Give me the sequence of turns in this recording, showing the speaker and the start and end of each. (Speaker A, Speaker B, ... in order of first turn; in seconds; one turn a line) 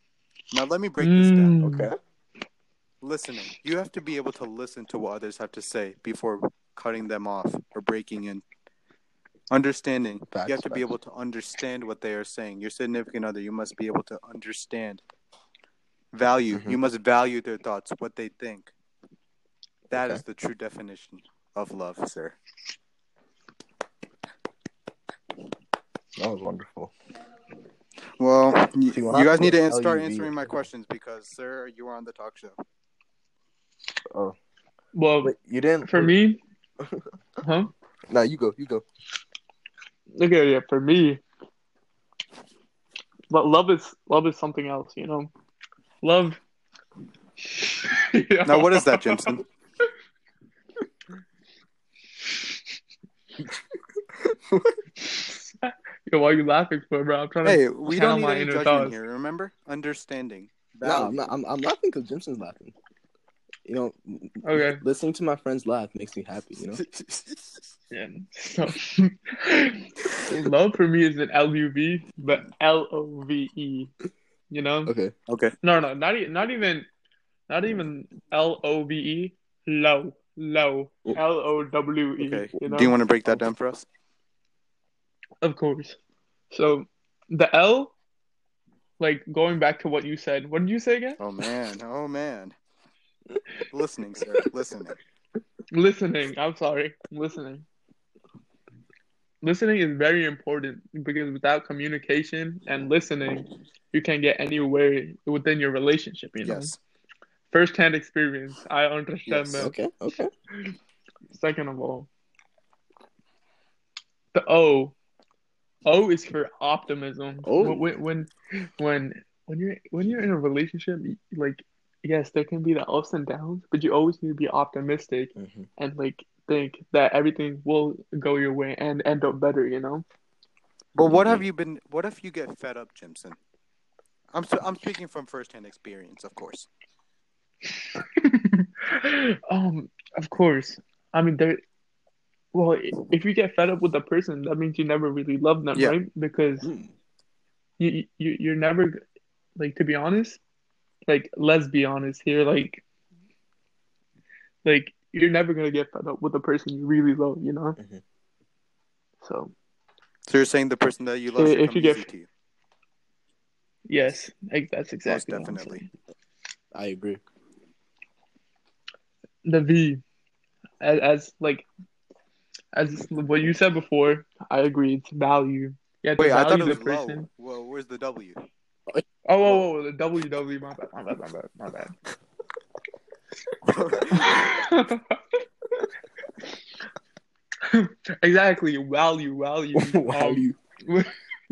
Speaker A: 0.5-1.6
Speaker B: 1.0-1.9
Speaker C: 1.6-2.0
Speaker A: 3.0-8.4
Speaker A: 9.5-15.0
Speaker C: 10.3-10.9
Speaker A: 16.1-18.7
Speaker C: 16.5-16.8
Speaker A: 19.9-22.4
Speaker C: 19.9-20.2
Speaker C: 26.2-26.9
Speaker A: 28.2-32.6
Speaker C: 28.9-30.5
Speaker C: 34.1-34.4
Speaker B: 34.9-36.4
Speaker C: 35.2-36.2
Speaker B: 37.4-37.7
Speaker C: 38.1-38.9
Speaker B: 40.1-41.2
Speaker B: 43.3-45.3
Speaker B: 46.0-46.4
Speaker B: 47.5-49.3
Speaker A: 48.4-49.5
Speaker C: 54.2-54.8
Speaker B: 55.0-59.0
Speaker A: 57.4-61.2
Speaker C: 60.8-62.8
Speaker C: 63.6-66.8
Speaker B: 64.4-64.8
Speaker A: 66.8-67.4
Speaker B: 67.9-73.9
Speaker B: 74.5-74.9
Speaker C: 74.9-75.1
Speaker A: 75.3-75.5
Speaker B: 75.6-76.9
Speaker B: 77.5-83.4
Speaker A: 82.2-83.9
Speaker B: 85.4-86.0
Speaker B: 86.5-87.9
Speaker B: 89.0-91.2
Speaker A: 91.2-92.5
Speaker A: 93.7-95.0
Speaker B: 95.7-97.7
Speaker B: 99.4-106.8
Speaker A: 106.4-106.8
Speaker B: 107.5-109.7
Speaker A: 109.3-109.7
Speaker C: 109.6-110.3
Speaker B: 111.3-112.1
Speaker B: 114.3-115.0
Speaker B: 115.9-130.1
Speaker C: 117.4-117.9
Speaker C: 125.4-125.7
Speaker A: 130.9-133.4
Speaker C: 131.1-131.4
Speaker A: 134.3-136.7
Speaker B: 137.9-141.6
Speaker B: 142.5-146.7
Speaker C: 146.6-146.9
Speaker B: 147.8-149.0
Speaker B: 149.6-150.4
Speaker B: 151.1-152.8
Speaker B: 154.6-157.8
Speaker B: 159.2-159.5
Speaker A: 160.3-162.3
Speaker B: 161.3-162.1
Speaker B: 163.9-165.9
Speaker A: 165.1-165.9
Speaker C: 166.7-167.2
Speaker B: 169.4-170.0
Speaker B: 170.8-171.7
Speaker B: 172.7-177.3
Speaker A: 176.2-178.4
Speaker B: 179.2-182.0
Speaker A: 183.7-184.5
Speaker B: 184.1-185.2
Speaker B: 187.7-191.1
Speaker C: 189.8-190.6